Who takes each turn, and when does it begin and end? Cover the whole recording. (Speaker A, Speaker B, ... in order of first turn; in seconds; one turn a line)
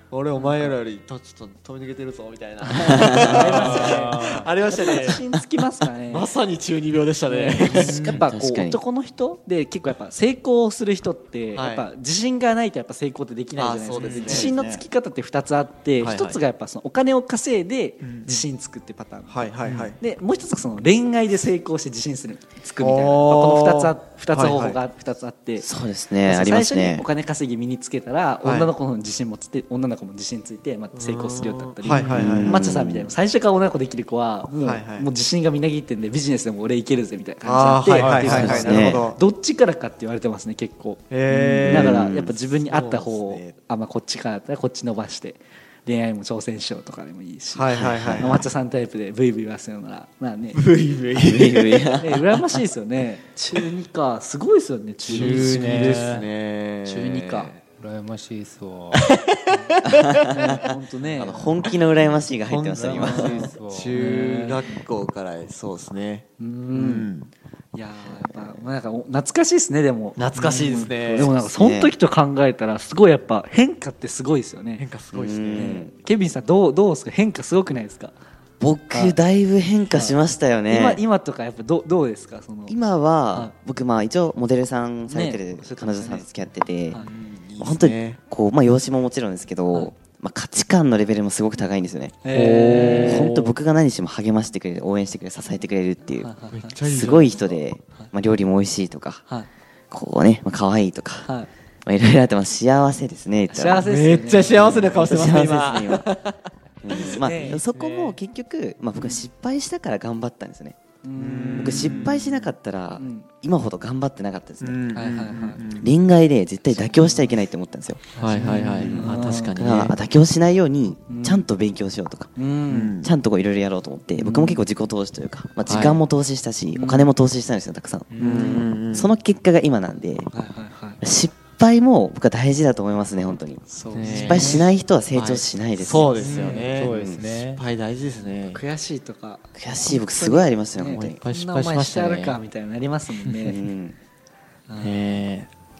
Speaker A: 0.1-5.2
Speaker B: 0.3-0.7
Speaker B: 2.7-6.3
Speaker C: 2.8-3.5
Speaker D: 3.4-4.5
Speaker A: 6.1-8.2
Speaker B: 7.2-25.7
Speaker C: 7.6-8.8
Speaker A: 11.5-11.8
Speaker A: 13.6-14.8
Speaker D: 14.0-14.4
Speaker A: 16.0-16.4
Speaker A: 18.0-18.4
Speaker A: 19.3-20.0
Speaker A: 22.8-24.8
Speaker C: 25.6-27.0
Speaker B: 26.2-50.6
Speaker A: 28.4-28.7
Speaker A: 30.9-32.6
Speaker C: 31.9-33.1
Speaker A: 34.6-35.1
Speaker A: 37.4-39.2
Speaker C: 38.0-39.0
Speaker A: 41.1-43.5
Speaker C: 41.7-42.3
Speaker A: 47.5-48.4
Speaker C: 47.7-48.5
Speaker A: 50.5-52.0
Speaker C: 51.1-52.5
Speaker B: 52.0-56.2
Speaker A: 55.1-57.5
Speaker D: 55.1-56.2
Speaker B: 56.8-57.6
Speaker D: 57.7-59.1
Speaker A: 58.9-60.6
Speaker C: 59.8-63.5
Speaker B: 60.3-61.5
Speaker A: 62.5-67.3
Speaker D: 62.7-64.0
Speaker B: 63.0-64.7
Speaker B: 66.4-67.1
Speaker B: 67.7-74.8
Speaker C: 68.3-68.6
Speaker A: 70.2-71.3
Speaker C: 71.3-71.9
Speaker A: 74.8-75.8
Speaker C: 75.1-75.9
Speaker B: 75.5-78.1
Speaker C: 78.6-81.0
Speaker B: 78.9-79.2
Speaker B: 79.9-82.8
Speaker C: 82.7-87.0
Speaker B: 85.1-86.3
Speaker A: 87.0-88.2
Speaker C: 87.6-92.2
Speaker B: 92.2-93.3
Speaker D: 92.3-93.4
Speaker A: 92.8-93.2
Speaker C: 92.9-96.3
Speaker B: 96.2-96.8
Speaker A: 96.5-97.6
Speaker C: 96.8-99.2
Speaker C: 99.9-101.3
Speaker B: 101.2-101.5
Speaker C: 101.8-103.9
Speaker B: 103.5-105.4
Speaker A: 103.8-106.3
Speaker C: 104.9-106.1
Speaker C: 106.8-110.8
Speaker B: 106.9-107.7
Speaker A: 106.9-107.2
Speaker D: 107.6-108.1
Speaker B: 111.0-112.2
Speaker A: 111.2-112.5
Speaker C: 111.6-114.8
Speaker B: 112.9-113.3
Speaker A: 114.6-115.9
Speaker B: 114.9-115.6
Speaker C: 115.8-118.0
Speaker B: 116.7-117.3
Speaker D: 118.2-119.0
Speaker A: 118.2-120.0
Speaker B: 118.3-119.8
Speaker C: 118.6-122.3
Speaker B: 121.1-121.5
Speaker B: 122.3-123.0
Speaker A: 122.7-123.1
Speaker C: 123.0-130.3
Speaker B: 124.2-124.6
Speaker A: 125.7-126.0
Speaker B: 126.7-127.1
Speaker D: 128.1-128.7
Speaker A: 128.2-129.1
Speaker B: 130.3-131.0
Speaker C: 131.0-137.2
Speaker B: 133.7-134.6
Speaker A: 133.9-136.9
Speaker D: 136.1-137.6
Speaker B: 136.2-136.6
Speaker A: 137.5-138.6
Speaker B: 138.5-143.6
Speaker C: 139.5-141.2
Speaker A: 140.9-142.4
Speaker C: 143.4-143.9
Speaker B: 144.7-145.0
Speaker A: 144.8-145.5